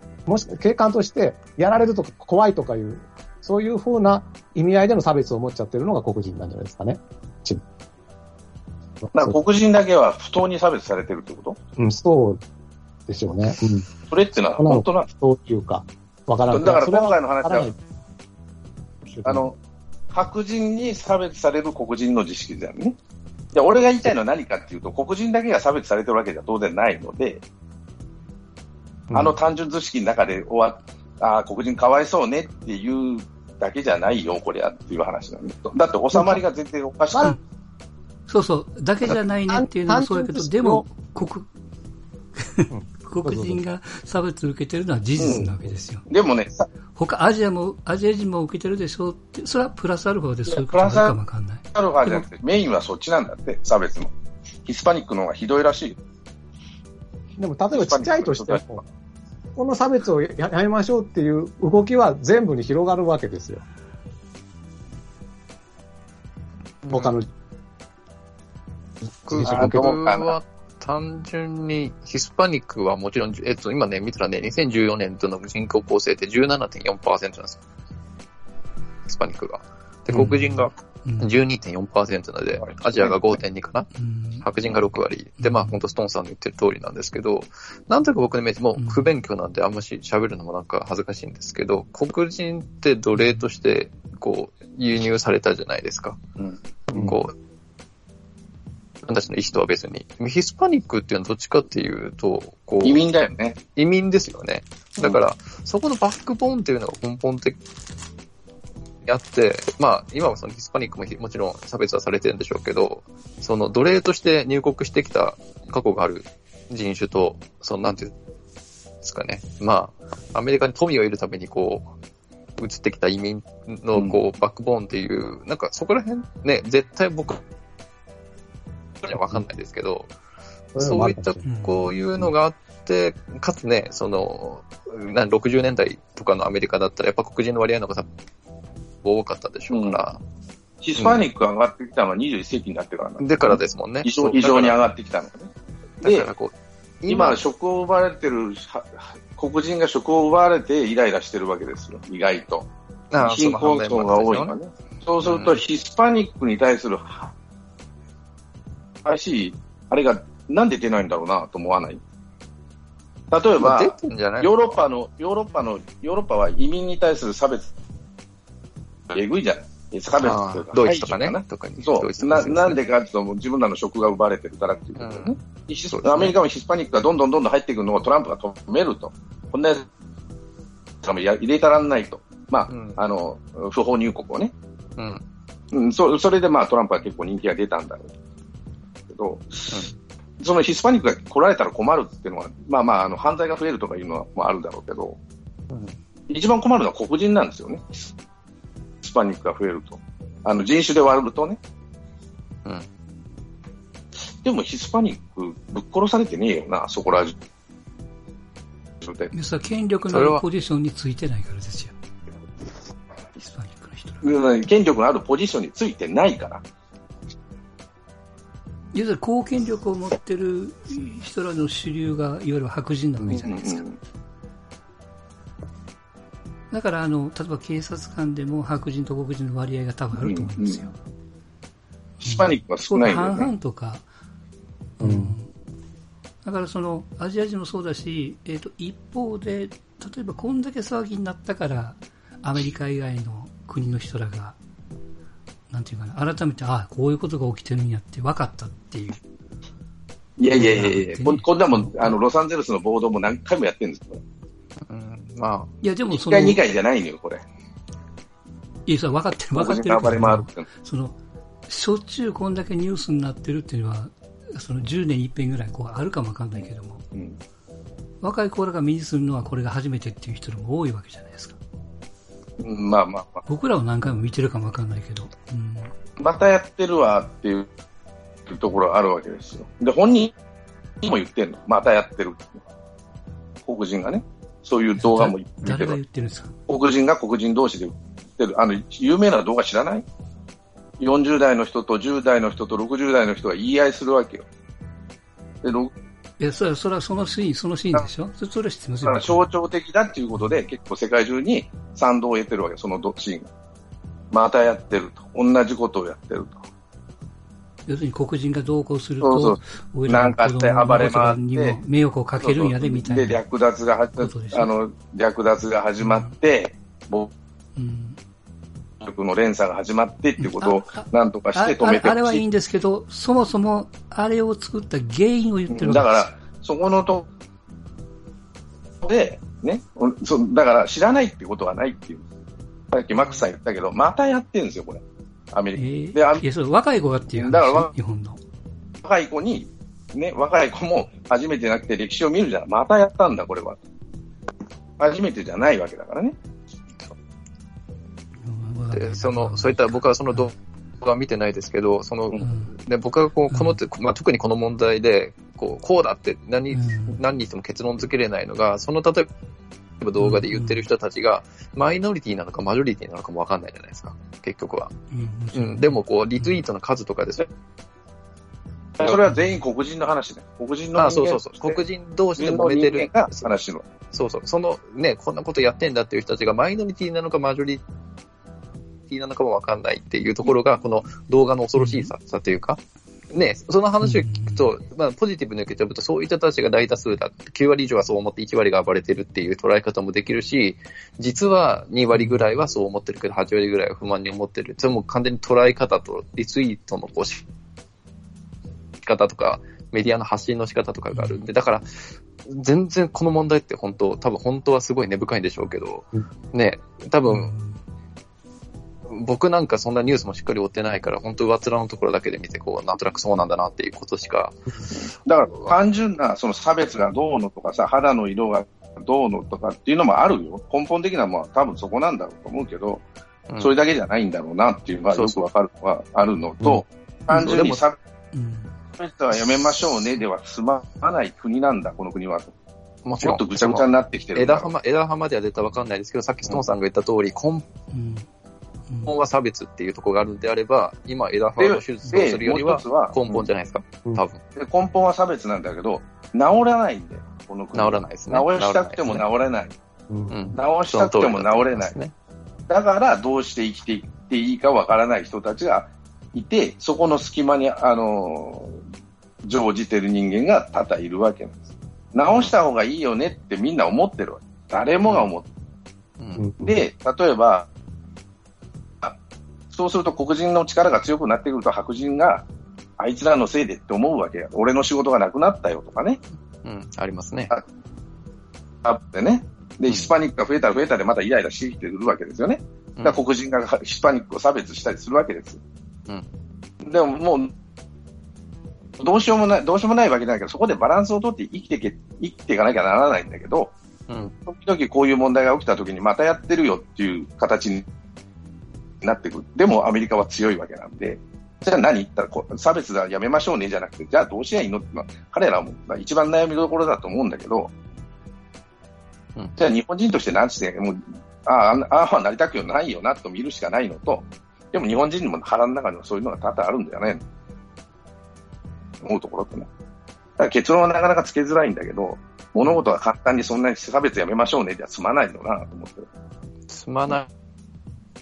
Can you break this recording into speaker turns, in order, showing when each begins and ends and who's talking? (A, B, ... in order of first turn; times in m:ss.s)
0:00.3-0:07.6 A
0:09.0-0:09.4 A
0:09.2-0:11.6 B
0:11.8-0:12.4 A
0:13.1-0:13.9 A
0:14.1-0:15.1 B
0:14.6-0:17.8 A
0:16.5-0:17.7 B
0:19.1-0:19.5 A
0:19.2-0:19.6 B
0:20.1-0:23.0 B
0:23.5-0:27.4 B
0:29.1-0:29.4 A
0:29.1-0:37.4 B
0:36.1-0:36.4 A
0:37.1-0:37.4 A
0:38.3-0:41.5 C
0:39.5-0:40.9 A
0:42.4-0:46.1 C
0:42.7-0:43.6 A
0:45.2-0:45.4 B
0:45.2-0:45.7 A
0:46.1-0:46.7 B
0:46.9-0:51.6 C
0:50.5-0:51.2 B
0:51.7-0:54.1 B
0:54.7-0:56.0 B
0:57.4-0:58.8 A
0:57.7-0:58.8 B
0:59.6-1:03.6 A
1:06.9-1:07.3 A
1:09.2-1:17.6 D
1:09.3-1:09.9 A
1:09.4-1:10.4 B
1:19.1-1:23.9 D
1:20.1-1:21.4 C
1:22.6-1:23.2 B
1:24.0-1:24.4 C
1:24.4-1:36.2 D
1:25.4-1:25.8 C
1:28.8-1:29.1 C
1:33.2-1:33.5 C
1:36.4-1:37.0 B
1:36.9-1:37.3 D
1:39.0-1:43.0 D
1:42.8-1:43.6 B
1:43.8-1:47.6 D
1:49.1-1:58.1 D
1:59.0-2:01.9 D
2:02.6-2:07.4 D
2:09.1-2:10.1 D
2:10.7-2:11.5 A
2:10.8-2:18.1 D
2:11.4-2:11.9 C
2:19.0-2:20.2 D
2:19.7-2:20.0 B
2:20.8-2:25.5 B
2:21.0-2:21.2 D
2:23.2-2:24.8 D
2:26.0-2:26.3 B
2:26.0-2:27.4 D
2:27.1-2:32.7 B
2:33.1-2:34.6 D
2:33.2-2:37.3 B
2:35.2-2:35.6 D
2:39.0-2:42.0 B
2:43.3-2:47.7 B
2:43.6-2:44.7 D
2:49.1-2:59.9 B
2:50.2-2:52.8 D
2:55.0-2:56.4 D
3:01.0-3:04.5 B
3:02.7-3:03.0 D
3:05.0-3:05.2 D
3:05.7-3:08.1 B
3:09.1-3:09.8 B
3:10.4-3:15.2 B
3:15.7-3:16.0 D
3:16.3-3:18.1 B
3:19.0-3:21.6 B
3:24.4-3:27.4 B
3:29.0-3:29.3 B
3:29.3-3:31.9 C
3:30.1-3:30.4 D
3:33.4-3:34.3 C
3:34.2-3:36.6 B
3:38.9-3:43.9 C
3:43.3-3:44.0 B
3:46.7-3:51.0 C
3:50.2-3:50.9 B
3:52.2-3:54.0 C
3:52.2-3:53.5 B
3:55.0-3:55.5 C
3:55.0-3:55.4 A
3:56.4-4:04.6 C
4:05.7-4:09.2 C
4:10.4-4:14.2 B
4:10.5-4:12.2 C
4:14.9-4:15.7 D
4:15.8-4:16.6 C
4:16.1-4:17.4 B
4:18.9-4:21.2 C
4:19.6-4:20.7 B
4:21.7-4:27.0 C
4:28.2-4:31.6 C
4:32.6-4:33.4 B
4:33.5-4:35.9 C
4:36.2-4:37.7 B
4:38.5-4:40.3 B
4:41.0-4:42.6 B
4:43.6-4:46.0 B
4:45.0-4:46.5 C
4:46.7-4:50.1 B
4:51.0-4:54.5 B
4:55.6-4:55.9 B
4:56.4-4:59.4 C
4:59.0-5:03.5 B
5:04.3-5:06.6 B
5:07.9-5:13.4 C
5:09.2-5:11.8 B
5:12.4-5:17.3 B
5:14.2-5:14.7 C
5:16.0-5:16.3 C
5:17.8-5:18.2 C
5:19.0-5:22.4 B
5:20.4-5:26.3 C
5:25.7-5:27.3 B
5:29.0-5:32.2 B
5:32.9-5:36.4 B
5:35.8-5:38.4 C
5:37.4-5:37.9 B
5:39.0-5:43.8 B
5:45.0-5:46.4 B
5:48.4-5:50.5 C
5:48.9-5:59.3 D
5:52.4-5:52.7 C
5:53.5-5:53.8 C
5:56.7-5:57.2 C
6:00.0-6:05.0 D
6:00.2-6:00.9 C
6:05.1-6:06.6 C
6:05.5-6:07.5 D
6:09.0-6:11.8 B
6:09.3-6:09.6 C
6:11.0-6:13.5 D
6:12.4-6:13.8 B
6:14.1-6:17.8 D
6:19.1-6:22.8 D
6:21.8-6:22.1 C
6:23.3-6:37.4 D
6:24.0-6:24.7 C
6:32.1-6:32.6 C
6:39.0-6:47.5 D
6:41.1-6:41.5 C
6:47.3-6:47.8 C
6:49.1-6:54.6 D
6:55.2-7:03.0 B
6:55.5-6:55.8 D
7:03.6-7:08.0 B
7:05.1-7:05.4 D
7:07.3-7:07.8 D
7:08.3-7:08.7 C
7:09.0-7:12.5 B
7:09.7-7:10.1 D
7:13.0-7:17.6 D
7:13.2-7:14.7 B
7:17.9-7:18.3 C
7:18.9-7:19.1 C
7:19.1-7:24.4 D
7:21.6-7:23.5 B
7:24.6-7:29.8 B
7:27.7-7:29.3 D
7:30.1-7:30.6 A
7:30.3-7:32.1 D
7:30.6-7:32.0 B
7:32.7-7:38.8 B
7:39.4-7:41.6 B
7:42.1-7:45.5 B
7:42.3-7:42.6 D
7:45.0-7:45.3 D
7:46.2-7:46.5 D
7:46.4-7:46.8 A
7:46.6-7:47.7 B
7:49.7-7:52.5 B
7:53.0-7:56.2 B
7:56.6-7:57.5 D
7:58.8-8:05.6 B
8:03.0-8:03.2 D
8:06.8-8:07.5 B
8:09.0-8:13.7 B
8:14.1-8:14.4 D
8:14.5-8:17.8 B
8:19.0-8:27.7 B
8:29.6-8:37.2 B
8:39.0-8:39.7 B
8:40.4-8:46.1 B
8:46.7-8:47.3 D